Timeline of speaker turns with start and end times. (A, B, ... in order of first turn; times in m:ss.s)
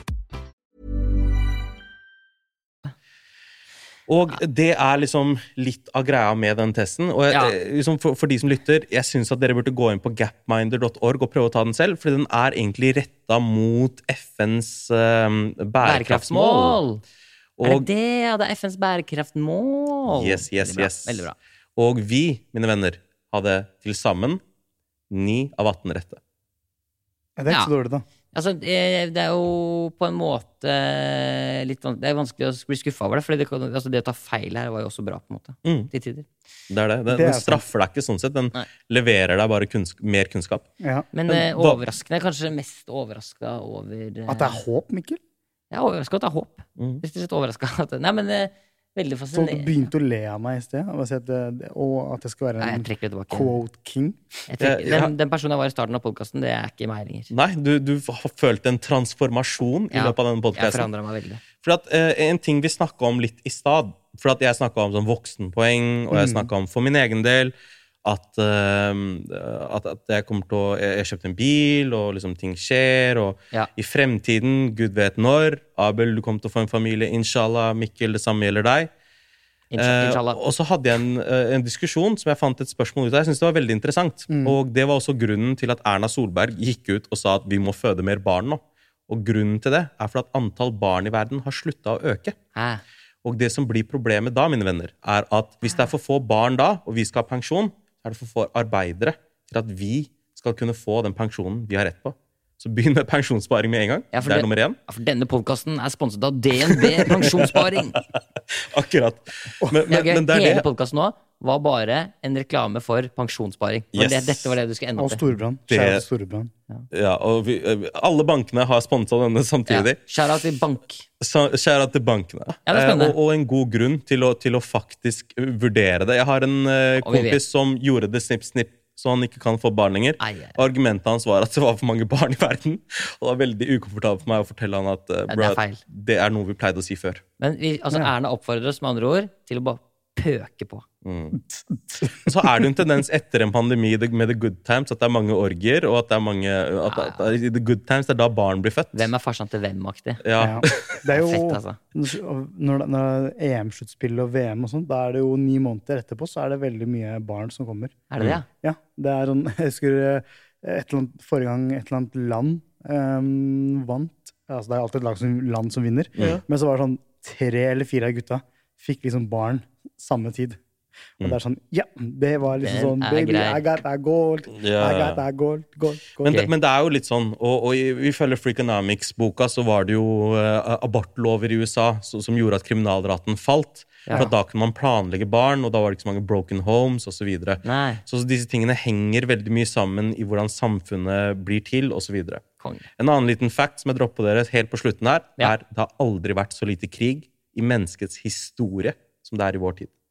0:04.1-0:16.8 A
0:15.8-0:17.0 B
0:17.6-0:17.9 A
0:17.6-0:21.4 B
0:20.1-0:24.4 A
0:25.1-0:26.2 A
0:27.4-0:28.0 C
0:28.3-0:36.3 B
0:35.6-0:35.9 A
0:36.7-0:40.7 A
0:37.1-0:37.6 C
0:40.8-0:41.1 C
0:41.1-0:44.6 B
0:41.3-0:41.8 A
0:44.3-0:45.2 C
0:45.7-0:49.9 B
0:46.8-0:47.0 A
0:49.3-0:54.2 C
0:52.6-0:53.6 B
0:54.5-0:57.3 B
0:54.6-0:55.1 A
0:57.3-1:00.9 A
0:59.9-1:01.4 B
1:01.6-1:18.9 A
1:06.1-1:06.5 C
1:19.7-1:20.4 B
1:19.8-1:32.4 A
1:24.3-1:24.6 C
1:32.6-1:32.8 B
1:33.2-1:44.8 A
1:44.1-1:48.0 B
1:46.7-1:50.7 A
1:49.9-1:55.2 B
1:53.9-1:54.6 A
1:55.0-1:56.5 C
1:55.7-1:56.0 A
1:56.9-2:00.0 A
1:59.7-2:01.0 B
2:01.2-2:17.2 A
2:02.7-2:03.2 B
2:07.0-2:07.4 B
2:10.2-2:10.6 B
2:15.3-2:15.8 B
2:17.4-2:20.8 B
2:21.0-2:21.4 A
2:22.1-2:29.1 A
2:26.9-2:27.4 B
2:28.9-2:30.2 B
2:30.2-2:31.0 A
2:30.4-2:37.9 C
2:31.1-2:31.8 B
2:38.1-2:38.5 B
2:38.6-2:50.6 C
2:46.2-2:46.4 A
2:51.2-2:56.4 C
2:52.6-2:53.6 B
2:54.5-2:55.2 A
2:56.2-3:12.4 A
3:07.6-3:08.0 B
3:12.6-3:12.9 B
3:13.0-3:19.9 A